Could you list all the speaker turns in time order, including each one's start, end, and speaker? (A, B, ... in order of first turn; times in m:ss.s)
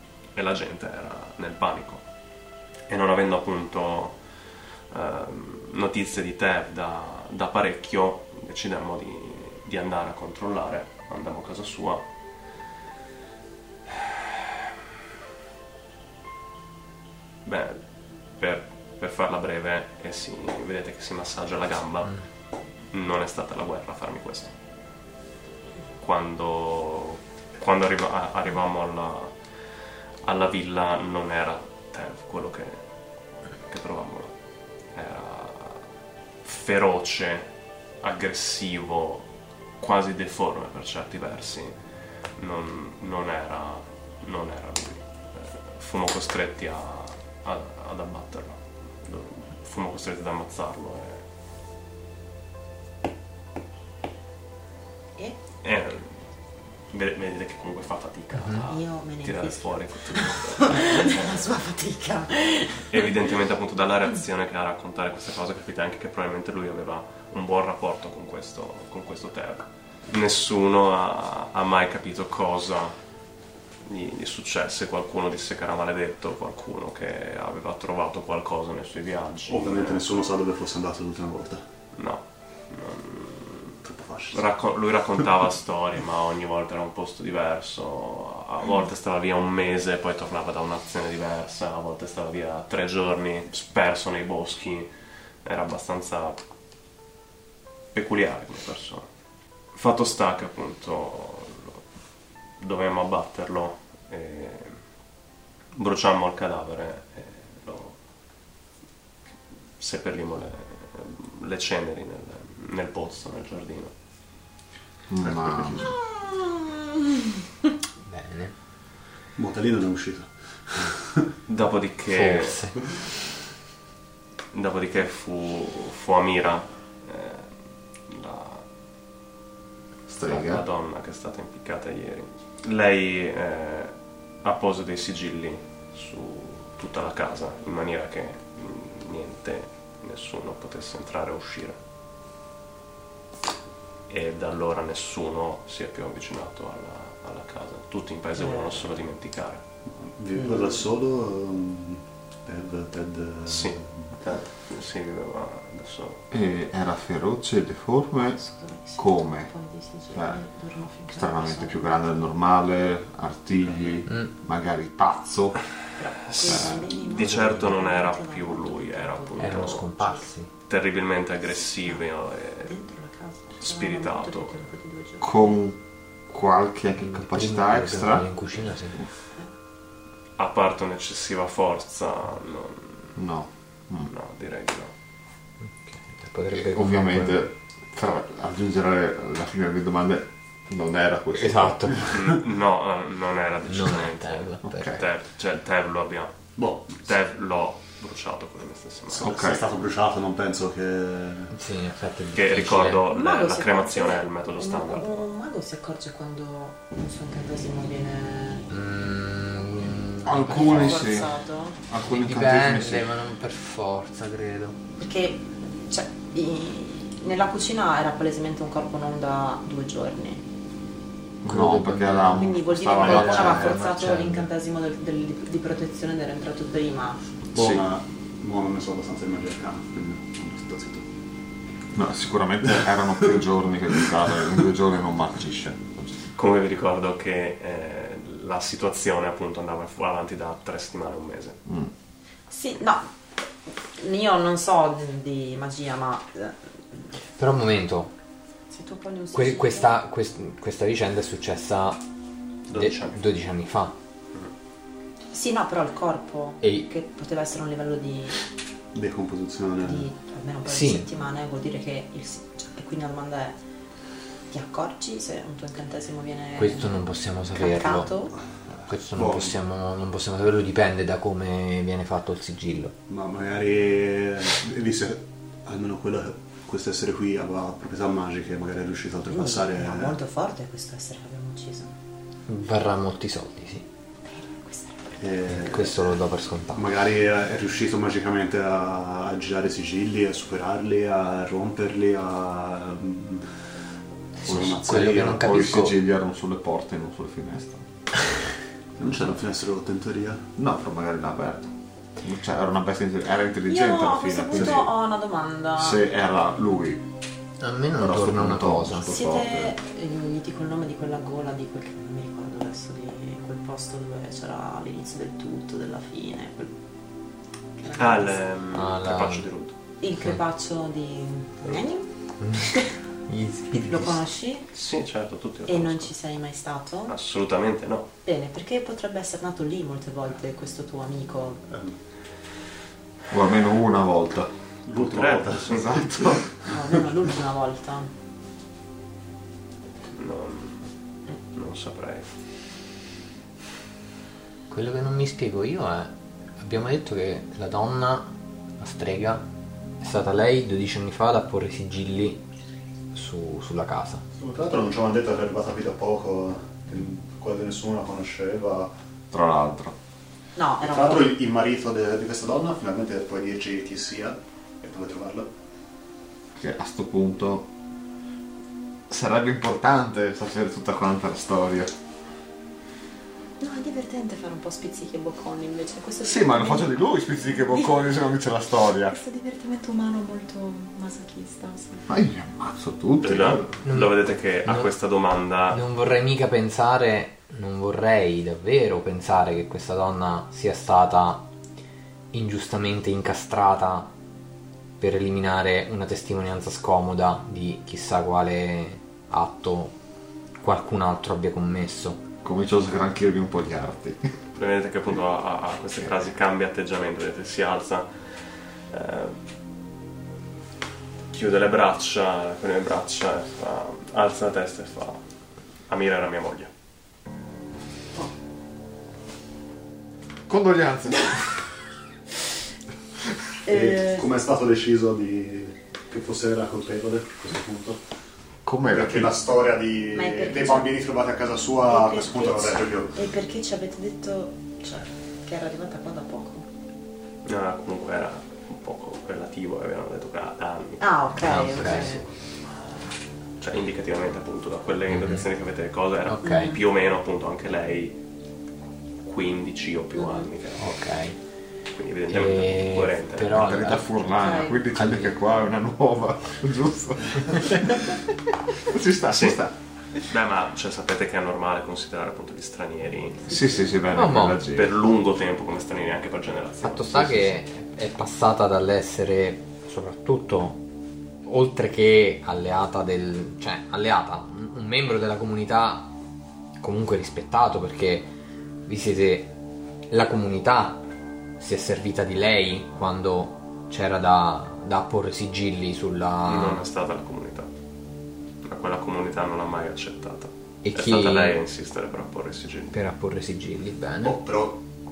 0:00.3-0:02.0 A
0:02.9-0:04.2 A
0:04.9-0:12.0 A
0:13.9-0:14.6 A
0:17.4-0:17.8 A
0:18.4-0:22.2 A
0:22.9-0:24.5 A
0:26.0-0:29.3 A
0:30.2-0:32.8 A
0:33.7-0:34.3 A
0:34.9-0:35.8 A
0:36.4-0:37.5 A
0:38.0-0:39.3 A
0:39.8-0:41.7 A
0:42.4-0:51.2 A
0:55.6-0:56.1 A
0:56.9-1:01.5 A
0:58.4-0:58.6 B
0:58.7-1:03.1 C
1:02.9-1:12.9 A
1:13.8-1:20.0 A
1:19.5-1:21.6 D
1:21.9-1:23.8 A
1:23.8-1:24.4 D
1:24.3-1:34.9 A
1:35.4-1:36.4 A
1:37.9-1:39.0 A
1:39.7-1:41.8 A
1:42.6-1:44.8 A
1:45.7-1:48.0 A
1:49.8-1:53.9 A
1:55.1-1:55.9 E
1:55.2-1:55.8 D
1:58.0-1:58.5 B
1:59.4-2:01.3 D
2:01.5-2:02.6 A
2:02.1-2:02.8 B
2:04.5-2:07.5 A
2:08.1-2:08.6 A
2:10.1-2:10.6 E
2:10.2-2:21.8 A
2:24.1-2:29.6 A
2:28.4-2:28.8 C
2:30.0-2:34.2 D
2:33.4-2:36.2 A
2:36.3-2:38.4 E
2:38.4-2:42.0 C
2:39.0-2:39.5 E
2:40.1-2:40.4 E
2:41.1-2:45.6 E
2:46.0-2:50.2 C
2:46.3-2:49.9 A
2:46.5-2:46.8 E
2:49.4-2:50.5 B
2:50.7-2:52.7 A
2:52.6-2:55.4 C
2:53.6-2:54.6 A
2:55.2-2:58.3 E
2:57.0-2:59.0 B
3:00.4-3:03.1 A
3:03.2-3:04.1 E
3:04.0-3:04.9 A
3:05.6-3:07.5 B
3:06.5-3:12.0 E
3:11.3-3:12.1 B
3:12.1-3:16.4 A
3:13.7-3:15.0 B
3:14.6-3:15.0 E
3:16.6-3:17.0 D
3:16.9-3:19.3 A
3:19.1-3:21.5 D
3:19.2-3:19.6 E
3:21.5-3:23.0 B
3:22.3-3:25.1 A
3:23.1-3:28.7 C
3:28.7-3:31.0 B
3:30.2-3:33.1 E
3:30.4-3:31.8 C
3:32.0-3:34.8 B
3:35.0-3:40.4 C
3:41.4-3:43.8 E
3:41.4-3:44.5 B
3:42.3-3:47.2 C
3:47.5-3:51.0 D
3:47.5-3:47.8 E
3:51.9-3:56.1 E
3:56.4-4:01.6 A
4:01.6-4:01.9 E
4:02.5-4:03.1 C
4:04.0-4:06.6 C
4:07.4-4:08.1 B
4:08.7-4:09.9 C
4:09.3-4:12.0 B
4:12.7-4:13.2 A
4:12.7-4:13.9 B
4:15.3-4:18.4 C
4:16.6-4:16.9 B
4:18.9-4:20.1 D
4:19.8-4:23.6 C
4:20.6-4:21.0 B
4:24.5-4:27.0 C
4:26.6-4:28.1 B
4:27.5-4:28.4 C
4:28.9-4:32.9 B
4:29.1-4:29.5 D
4:33.1-4:40.2 D
4:39.3-4:41.9 C
4:42.5-4:43.8 B
4:44.2-4:45.2 C
4:45.2-4:46.0 D
4:45.5-4:46.8 B
4:46.7-4:53.5 D
4:54.4-4:55.5 D
4:54.4-4:56.0 B
4:54.5-4:57.8 E
4:59.0-5:00.4 D
5:00.6-5:04.9 E
5:03.7-5:06.0 C
5:05.8-5:07.0 E
5:07.6-5:09.1 B
5:08.0-5:09.7 E
5:09.1-5:16.7 C
5:17.8-5:18.4 C
5:18.0-5:19.7 A
5:18.7-5:19.5 B
5:20.0-5:22.0 C
5:22.4-5:22.7 B
5:23.3-5:24.2 B
5:23.9-5:24.6 C
5:24.7-5:26.1 A
5:25.7-5:27.1 C
5:27.1-5:28.1 A
5:28.2-5:31.6 C
5:31.7-5:31.9 D
5:33.3-5:34.5 E
5:34.8-5:35.9 D
5:34.9-5:35.9 A
5:35.7-5:36.5 E
5:36.7-5:38.1 C
5:40.1-5:40.9 A
5:41.5-5:42.3 A
5:44.7-5:49.4 B
5:50.0-5:52.4 B
5:53.1-5:54.2 B
5:54.4-5:58.9 D
5:59.3-5:59.9 E
6:00.6-6:01.4 C
6:00.8-6:05.5 D
6:06.6-6:07.7 E
6:09.1-6:11.9 E
6:13.6-6:18.1 C
6:16.2-6:19.2 E
6:19.1-6:22.0 C
6:22.1-6:23.7 E
6:23.2-6:25.8 A
6:23.8-6:24.9 B
6:25.7-6:31.4 B
6:32.3-6:34.1 B
6:35.0-6:40.0 B
6:40.6-6:42.2 B
6:42.4-6:44.2 E
6:44.5-6:48.3 A
6:48.9-6:49.4 A
6:51.3-6:55.2 A
6:55.9-6:56.7 A
7:00.5-7:01.6 E
7:03.6-7:04.3 C
7:03.7-7:08.0 D
7:08.6-7:09.4 E
7:08.8-7:13.2 D
7:10.1-7:11.0 C
7:11.8-7:16.6 C
7:17.4-7:22.1 A
7:21.0-7:22.2 C
7:21.4-7:22.2 B
7:23.6-7:28.2 A
7:25.1-7:25.4 B
7:26.2-7:26.8 B
7:26.4-7:26.8 C
7:29.2-7:31.0 A
7:30.1-7:30.5 C
7:30.8-7:31.4 B
7:31.9-7:33.8 A
7:32.3-7:34.3 B
7:33.5-7:38.2 E
7:34.4-7:34.8 C
7:34.9-7:35.3 B
7:38.8-7:39.7 E
7:39.3-7:39.6 A
7:40.2-7:43.6 A
7:43.5-7:44.9 E
7:44.1-7:44.6 B
7:44.7-7:47.6 A
7:46.8-7:50.8 B
7:51.4-7:56.1 B
7:56.8-7:58.3 B
7:58.9-7:59.5 B
8:00.1-8:01.0 B
8:01.6-8:06.8 B
8:06.4-8:07.7 A
8:08.6-8:12.9 A
8:10.8-8:11.6 B
8:12.9-8:14.4 B
8:14.2-8:14.8 D